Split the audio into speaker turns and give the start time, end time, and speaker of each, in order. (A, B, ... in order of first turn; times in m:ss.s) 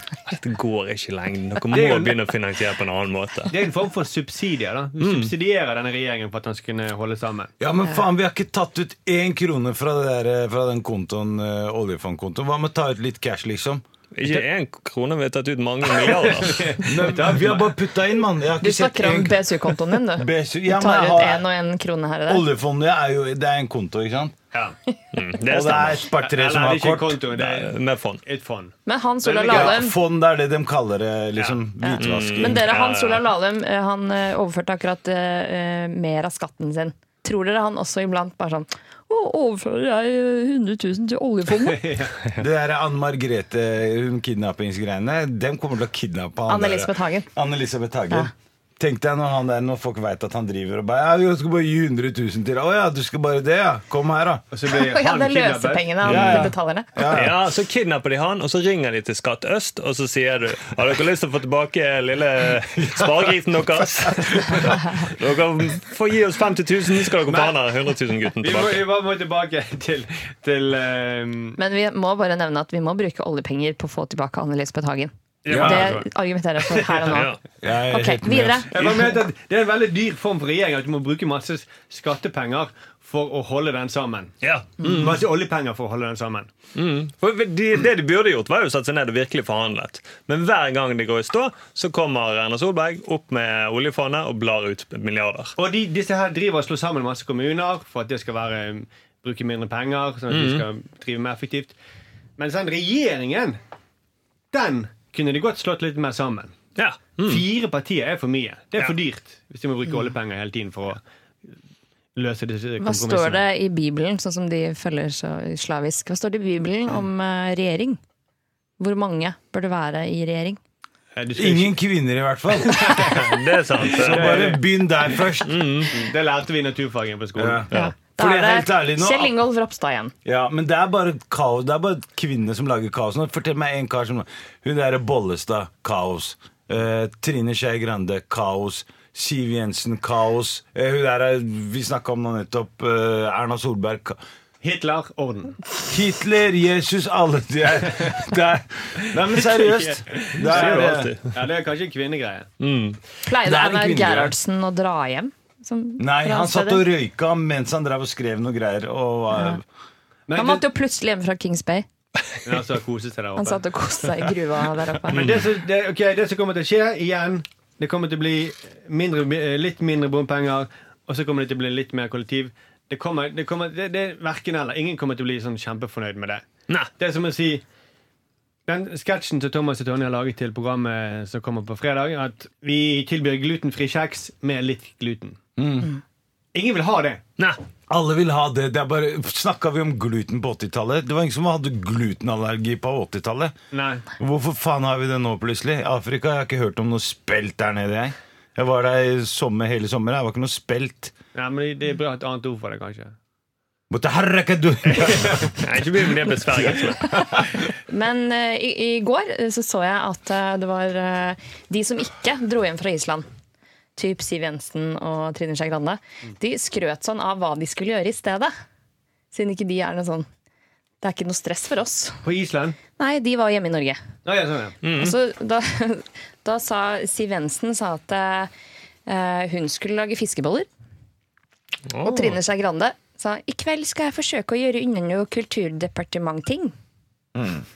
0:00.2-0:03.5 A
0:01.7-0:02.2 B
0:03.5-0:07.5 B
0:05.0-0:05.3 A
0:07.6-0:13.8 C
0:14.2-0:17.0 A
0:15.9-0:17.8 B
0:16.8-0:21.5 C
0:18.6-0:22.5 D
0:22.3-0:24.4 C
0:25.1-0:26.1 A
0:25.4-0:27.2 C
0:26.2-0:29.8 B
0:27.3-0:28.2 A
0:28.9-0:30.0 D
0:29.5-0:32.7 C
0:31.8-0:41.9 D
0:32.0-0:33.3 A
0:41.5-0:42.2 B
0:42.4-0:54.4 C
0:46.5-0:47.3 D
0:54.5-0:55.9 B
0:54.7-0:57.0 D
0:56.0-0:56.5 A
0:56.0-0:57.5 C
0:57.1-1:08.8 A
1:02.8-1:03.3 C
1:03.8-1:04.9 C
1:07.3-1:07.6 B
1:08.4-1:11.6 B
1:11.6-1:17.3 D
1:15.4-1:16.1 B
1:15.5-1:15.9 C
1:16.6-1:17.3 B
1:17.1-1:17.4 A
1:17.6-1:19.0 C
1:17.9-1:18.7 D
1:18.7-1:24.4 B
1:24.4-1:25.2 A
1:24.9-1:26.5 B
1:26.8-1:35.6 A
1:35.6-1:41.8 B
1:40.3-1:40.7 A
1:42.4-1:43.6 B
1:44.5-1:46.6 B
1:46.8-1:47.5 A
1:47.3-1:51.0 B
1:52.2-1:53.5 B
1:52.8-1:58.0 D
1:58.8-2:00.6 D
2:01.2-2:01.8 B
2:01.4-2:03.1 C
2:02.6-2:04.6 B
2:03.0-2:04.6 A
2:03.9-2:05.6 C
2:05.4-2:06.0 A
2:05.9-2:07.8 B
2:07.4-2:09.4 C
2:07.7-2:10.1 D
2:10.2-2:24.2 C
2:24.6-2:25.6 B
2:25.9-2:31.1 C
2:29.1-2:32.5 B
2:30.4-2:31.4 A
2:32.6-2:33.0 A
2:33.2-2:36.9 D
2:33.4-2:34.4 C
2:36.0-2:39.6 C
2:39.3-2:39.6 D
2:40.3-2:40.6 B
2:40.4-2:41.9 D
2:42.4-2:43.6 B
2:43.4-2:45.2 D
2:45.1-2:56.4 B
2:57.0-2:57.6 B
2:58.7-3:05.4 B
3:05.6-3:05.9 C
3:06.5-3:07.2 B
3:07.9-3:13.5 C
3:13.7-3:14.1 B
3:14.2-3:21.1 C
3:21.4-3:23.2 B
3:23.9-3:25.5 C
3:24.9-3:25.6 B
3:25.6-3:27.3 A
3:27.9-3:33.3 D
3:34.0-3:38.5 D
3:39.3-3:40.3 D
3:41.0-3:42.2 D
3:42.2-3:42.8 B
3:43.0-3:44.0 D
3:44.2-3:44.8 B
3:44.8-3:45.2 A
3:44.9-3:48.5 D
3:49.1-3:50.7 D
3:51.9-3:52.4 A
3:52.0-3:56.7 D
3:57.4-3:57.6 C